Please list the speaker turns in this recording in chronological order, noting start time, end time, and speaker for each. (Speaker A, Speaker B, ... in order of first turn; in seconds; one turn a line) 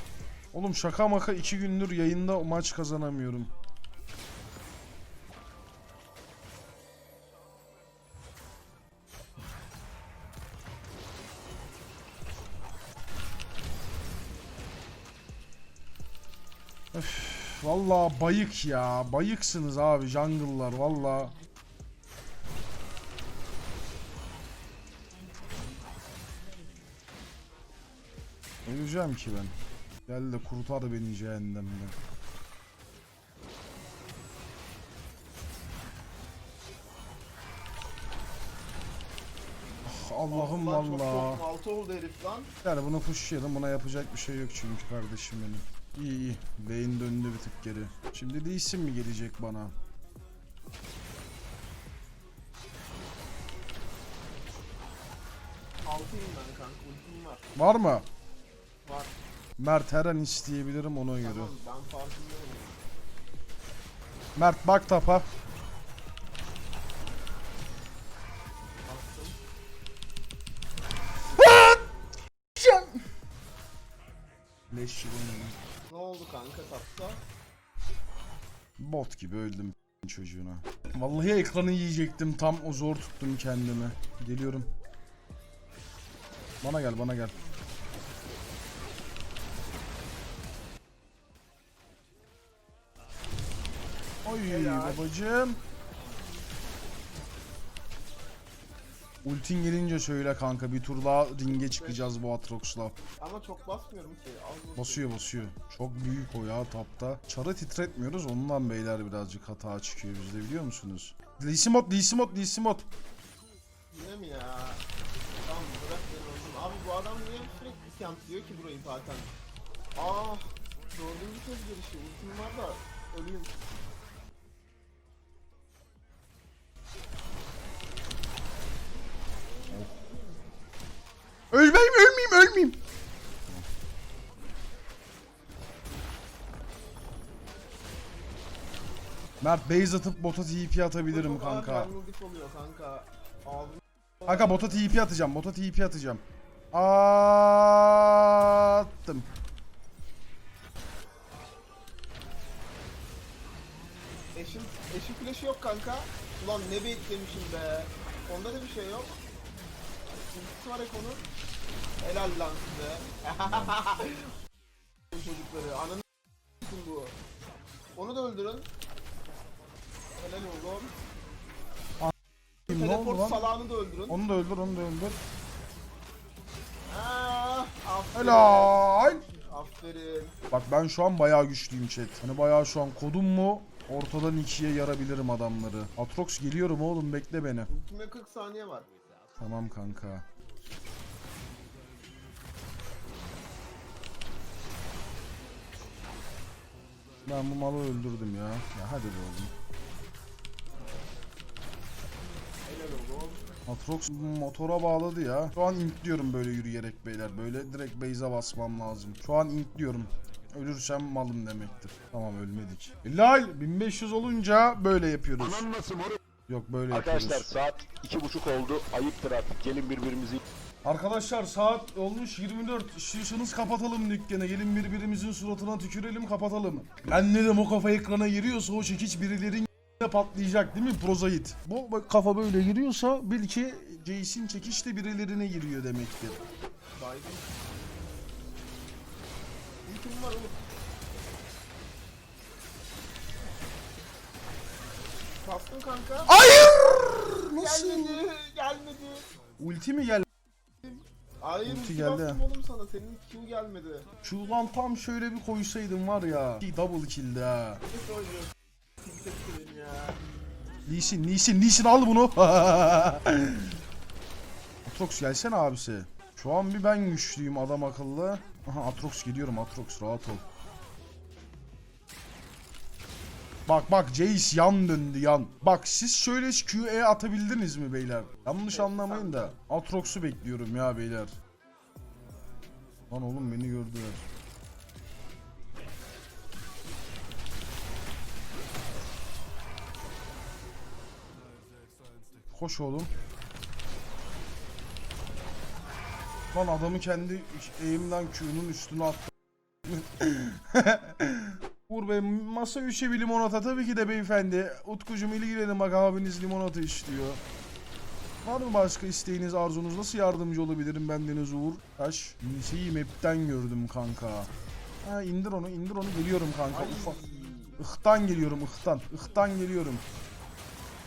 Speaker A: 0.5-3.5
Speaker A: 16.9-21.3
Speaker A: 28.6-29.5
Speaker A: 30.1-31.9
Speaker A: 39.8-41.4
Speaker B: 40.3-42.5
Speaker A: 42.6-49.7
Speaker B: 55.8-57.5
Speaker A: 57.5-58.0
Speaker B: 58.8-59.1
Speaker A: 59.6-61.5
Speaker B: 61.2-62.8
Speaker A: 64.3-65.2
Speaker B: 68.8-69.4
Speaker A: 71.3-71.8
Speaker A: 72.6-73.0
Speaker A: 74.7-75.6
Speaker B: 75.9-77.2
Speaker A: 78.8-84.7
Speaker A: 86.6-87.4
Speaker A: 94.2-95.6
Speaker B: 94.4-95.1
Speaker A: 99.2-102.9
Speaker B: 101.5-102.1
Speaker B: 103.2-105.1
Speaker A: 104.8-112.8
Speaker B: 113.9-114.8
Speaker B: 115.4-119.3
Speaker B: 119.9-123.5
Speaker A: 131.5-132.8
Speaker A: 139.4-141.9
Speaker B: 141.1-144.8
Speaker A: 144.3-149.3
Speaker B: 154.3-159.2
Speaker B: 160.3-161.2
Speaker B: 162.0-164.3
Speaker A: 163.4-163.7
Speaker B: 165.1-166.0
Speaker B: 166.6-167.1
Speaker B: 167.9-168.7
Speaker B: 170.2-170.9
Speaker A: 172.7-173.4
Speaker B: 172.7-174.2
Speaker A: 174.1-175.2
Speaker B: 176.9-180.3
Speaker A: 178.2-179.2
Speaker A: 180.5-187.7
Speaker B: 187.7-188.9
Speaker A: 189.4-190.2
Speaker A: 197.2-199.5
Speaker B: 202.6-203.4
Speaker A: 203.7-215.7
Speaker C: 215.4-216.2
Speaker A: 216.5-217.6
Speaker C: 216.9-220.4
Speaker A: 220.8-236.4
Speaker B: 236.9-237.5
Speaker B: 239.8-240.6
Speaker B: 245.4-249.2
Speaker A: 246.3-248.2
Speaker A: 249.6-250.2
Speaker B: 250.8-254.1
Speaker A: 251.7-252.4
Speaker A: 254.2-257.8
Speaker B: 257.9-260.2
Speaker A: 260.9-263.8
Speaker A: 264.9-270.4
Speaker A: 273.7-281.4
Speaker B: 278.7-279.5
Speaker A: 283.1-284.2
Speaker A: 292.5-293.1
Speaker A: 296.5-299.3
Speaker A: 299.9-307.4
Speaker A: 308.4-314.5
Speaker A: 315.0-317.1
Speaker B: 316.7-317.8
Speaker A: 317.8-320.0